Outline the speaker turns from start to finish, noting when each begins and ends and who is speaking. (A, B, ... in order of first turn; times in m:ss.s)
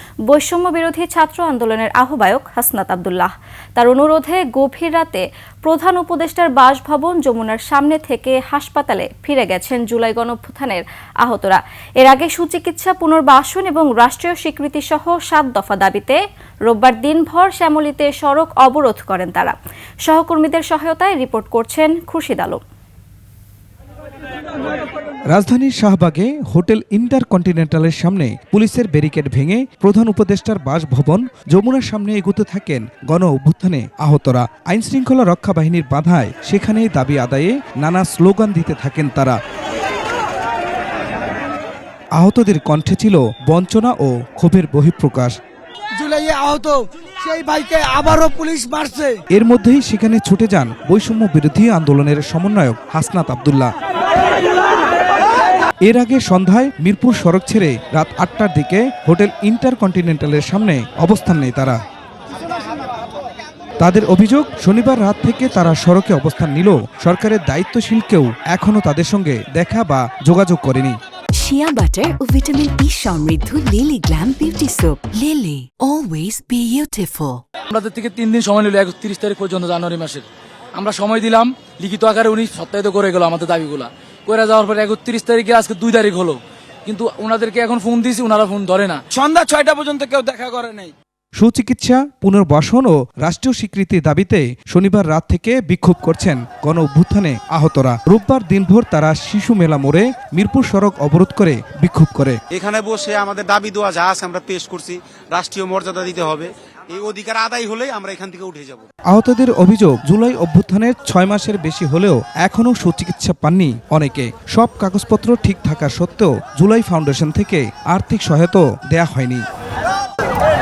0:00.3-0:22.6 A
0:25.3-0:39.4 B
0:42.2-0:45.4 B
0:46.0-0:49.2 C
0:49.3-0:53.7 B
0:55.8-1:01.8 B
1:03.8-1:11.0 B
1:11.4-1:17.4 D
1:17.7-1:29.0 E
1:31.4-1:42.4 B
1:42.5-1:48.8 F
1:49.1-1:59.4 B